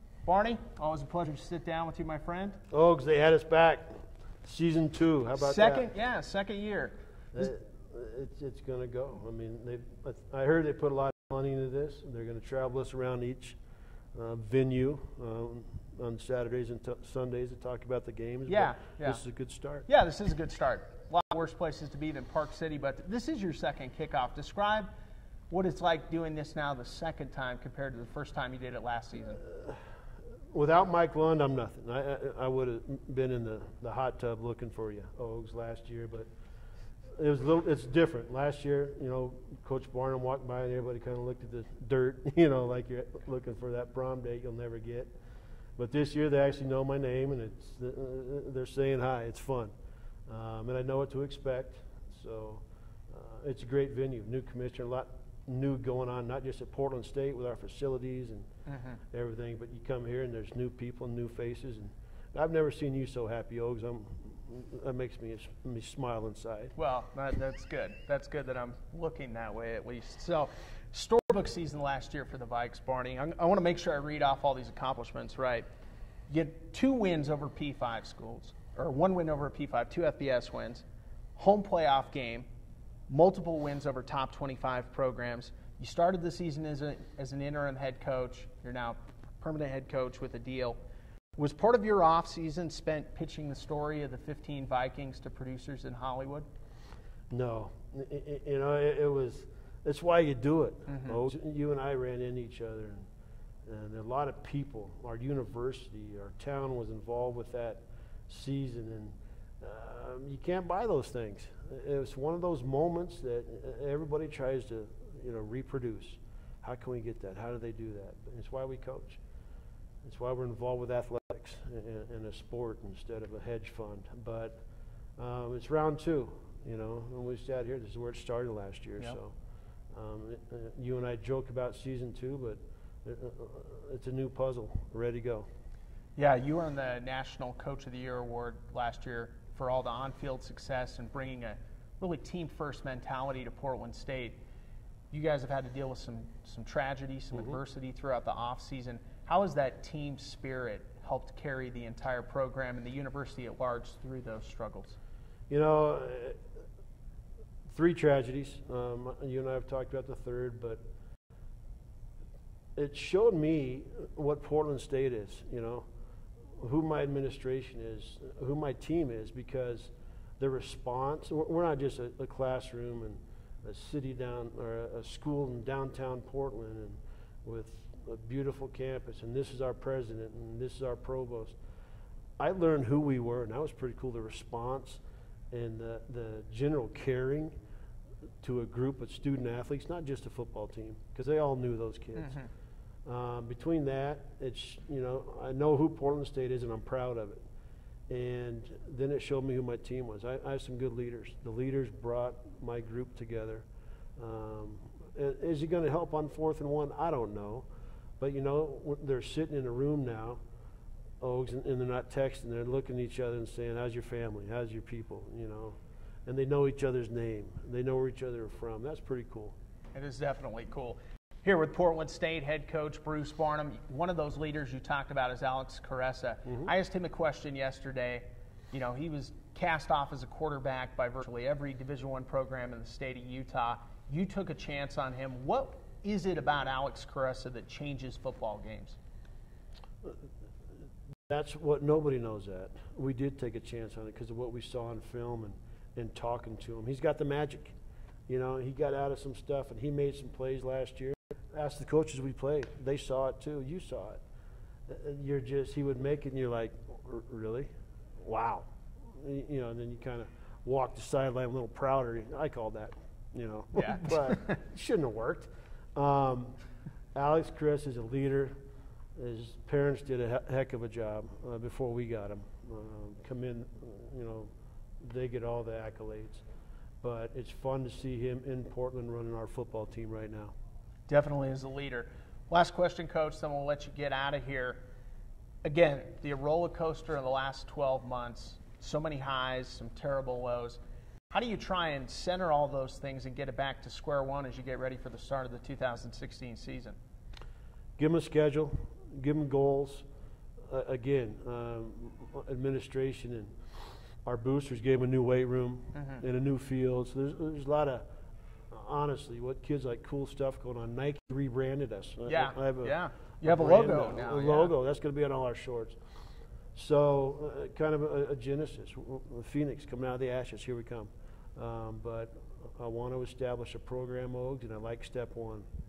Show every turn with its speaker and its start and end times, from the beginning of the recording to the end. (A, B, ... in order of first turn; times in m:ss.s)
0:00.2-0:02.6 A
0:02.7-0:05.9 B
0:05.4-0:07.5 A
0:07.3-0:13.6 B
0:14.1-0:19.9 B
0:18.5-0:19.2 A
0:19.9-0:24.9 A
0:25.5-0:29.4 A
0:29.5-0:29.8 B
0:30.5-0:36.3 B
0:37.2-0:45.1 B
0:45.8-0:49.7 B
0:50.3-0:58.4 B
0:58.7-0:59.0 A
0:59.1-1:06.7 B
1:06.8-1:15.6 A
1:16.3-1:22.5 A
1:23.1-1:30.8 A
1:31.4-1:36.5 A
1:37.3-1:43.0 B
1:40.9-1:41.2 A
1:43.6-1:59.2 B
2:00.0-2:04.6 B
2:05.2-2:09.3 B
2:09.9-2:15.4 B
2:16.2-2:24.4 A
2:25.1-2:35.0 A
2:35.5-2:36.4 B
2:37.6-2:40.8 B
2:42.8-2:45.8 B
2:46.6-3:01.6 B
3:02.4-3:07.5 B
3:08.4-3:12.4 B
3:12.2-3:12.5 A
3:13.0-3:17.4 B
3:18.1-3:23.6 B
3:24.2-3:27.6 B
3:28.2-3:30.4 B
3:31.2-3:39.5 B
3:39.9-3:59.0 A
4:01.3-4:07.8 B
4:08.3-4:14.2 B
4:14.9-4:17.7 B
4:18.2-4:26.6 B
4:23.7-4:24.6 A
4:27.1-4:28.6 B
4:29.2-4:36.4 B
4:37.0-4:40.5 B
4:41.1-4:44.8 A
4:45.6-4:50.8 A
4:51.3-4:57.0 A
4:58.0-5:00.0 B
5:00.7-5:03.5 B
5:04.2-5:08.0 B
5:05.9-5:06.2 A
5:08.7-5:16.0 B
5:12.3-5:14.7 A
5:16.7-5:25.6 B